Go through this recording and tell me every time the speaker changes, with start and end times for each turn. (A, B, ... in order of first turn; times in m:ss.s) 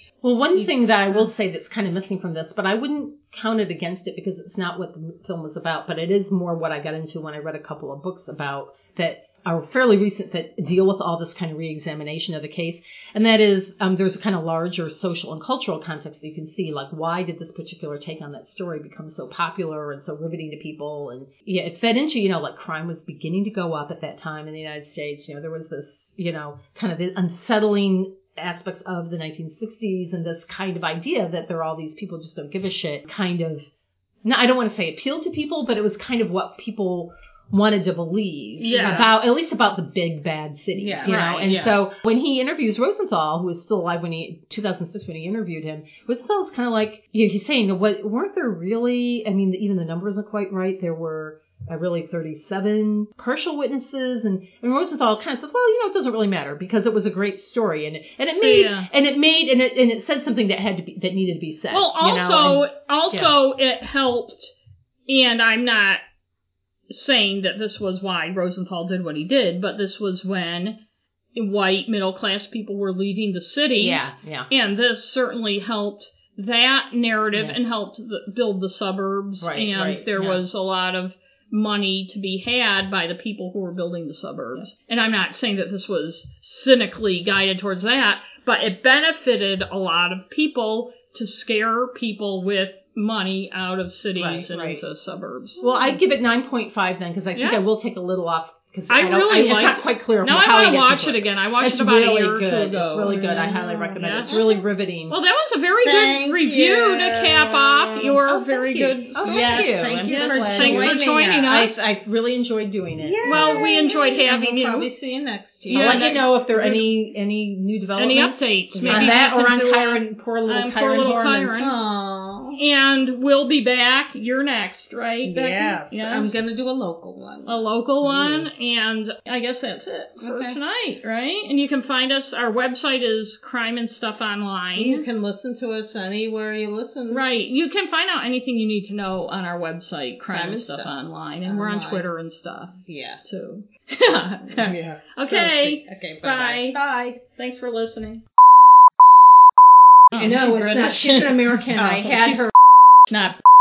0:00.2-0:33.7 A
0:00.5-0:01.3 B
0:34.2-1:03.3 A
0:38.6-0:39.2 C
0:38.8-0:39.1 B
0:40.7-0:41.8 B
0:58.4-0:58.9 C
1:01.7-1:04.5 C
1:05.1-1:06.0 C
1:06.9-1:10.8 C
1:11.3-1:35.6 C
1:13.8-1:14.5 A
1:19.4-1:20.4 A
1:34.2-1:34.8 A
1:35.6-1:45.2 A
1:37.3-1:37.6 C
1:38.9-1:44.3 C
1:42.9-1:44.6 B
1:45.1-1:51.8 C
1:45.8-1:51.6 B
1:48.7-1:53.7 A
1:53.0-1:56.2 B
1:53.2-1:54.9 C
1:55.7-1:56.8 C
1:55.7-2:01.5 A
1:58.0-2:01.7 C
1:58.8-1:59.3 B
2:01.6-2:02.6 B
2:02.6-2:06.4 C
2:05.2-2:08.5 B
2:07.4-2:15.0 C
2:10.2-2:10.6 B
2:14.8-2:17.2 B
2:17.1-2:28.2 C
2:20.3-2:22.0 B
2:22.9-2:23.2 B
2:24.5-2:26.7 B
2:26.7-2:27.2 A
2:30.1-2:31.5 C
2:30.2-2:32.5 A
2:31.7-2:32.5 B
2:33.1-2:33.4 C